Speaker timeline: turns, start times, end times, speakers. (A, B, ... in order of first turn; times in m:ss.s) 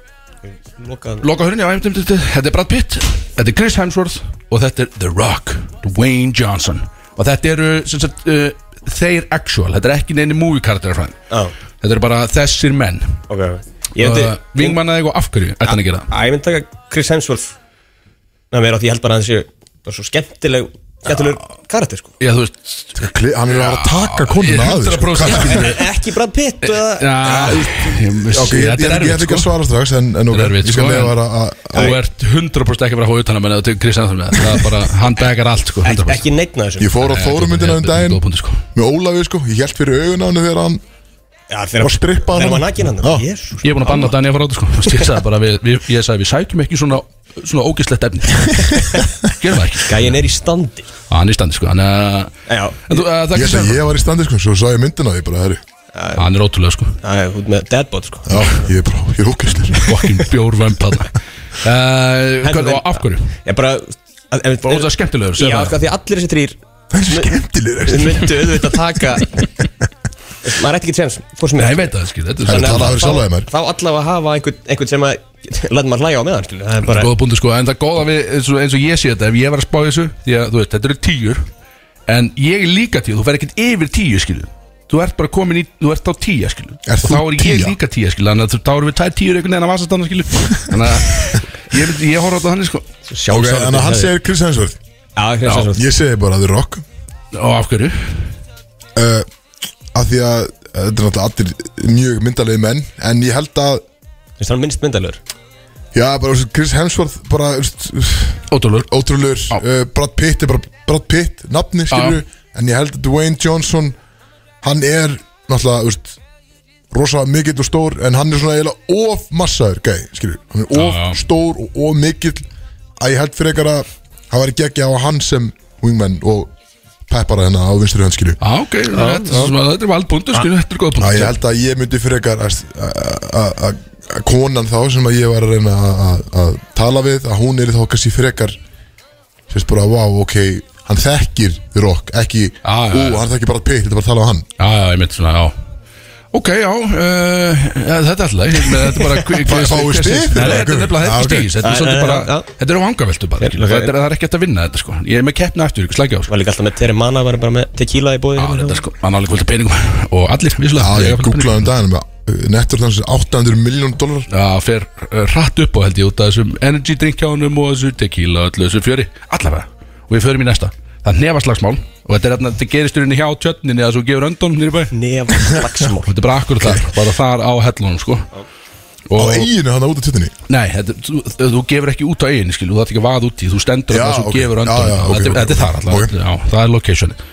0:00.8-0:01.2 A
0:01.2-0:11.2 B
0:11.8-0:13.2 B
0:13.3-0:14.8 A
0:14.0-0:16.1 B
0:15.7-0:17.5 A
0:18.5-0:22.2 A
0:22.2-0:23.0 B
0:23.0-0:25.8 C
0:23.5-0:25.8 B
0:25.4-0:27.9 A
0:26.6-0:29.5 B
0:28.3-0:32.0 C
0:30.3-0:36.2 B
0:31.7-0:32.0 A
0:35.8-0:37.0 A
0:36.8-0:38.2 C
0:37.0-0:38.6 B
0:38.7-0:40.8 C
0:41.5-0:44.2 A
0:41.8-0:43.2 C
0:43.6-0:50.1 B
0:49.8-0:50.9 A
0:51.1-0:52.4 B
0:52.5-0:53.0 A
0:52.9-0:53.8 B
0:53.3-0:55.6 C
0:55.9-0:56.3 A
0:56.2-0:57.0 B
0:57.0-0:58.6 A
0:58.3-0:59.9 C
0:59.8-1:03.4 B
1:02.4-1:07.3 A
1:04.7-1:05.8 B
1:06.9-1:08.8 C
1:07.9-1:09.4 A
1:10.4-1:11.9 A
1:11.6-1:13.2 B
1:12.4-1:13.5 C
1:12.4-1:17.1 A
1:16.9-1:21.5 B
1:22.1-1:32.8 B
1:26.9-1:27.8 C
1:33.1-1:34.1 A
1:33.3-1:34.8 C
1:35.2-1:35.9 A
1:35.7-1:36.8 C
1:37.3-1:38.3 B
1:39.0-1:39.3 C
1:39.9-1:43.8 C
1:44.4-1:45.2 A
1:45.9-1:54.0 C
1:48.5-1:48.9 B
1:51.9-1:52.2 B
1:54.6-1:56.2 C
1:56.9-2:02.5 C
2:00.7-2:01.2 B
2:03.0-2:06.5 C
2:07.1-2:08.4 C
2:08.4-2:11.4 B
2:09.0-2:09.5 A
2:11.0-2:18.6 C
2:19.5-2:24.5 C
2:22.6-2:23.2 B
2:24.6-2:25.5 B
2:26.3-2:36.3 B
2:29.4-2:31.6 C
2:31.6-2:32.5 A
2:33.4-2:33.9 A
2:36.3-2:38.8 A
2:38.4-2:41.7 B
2:40.8-2:44.3 C
2:44.3-2:54.9 B
2:54.9-2:56.1 A
2:56.1-2:58.3 B
2:59.1-2:59.5 B
2:59.1-3:00.3 C
3:00.5-3:07.2 B
3:03.9-3:06.1 C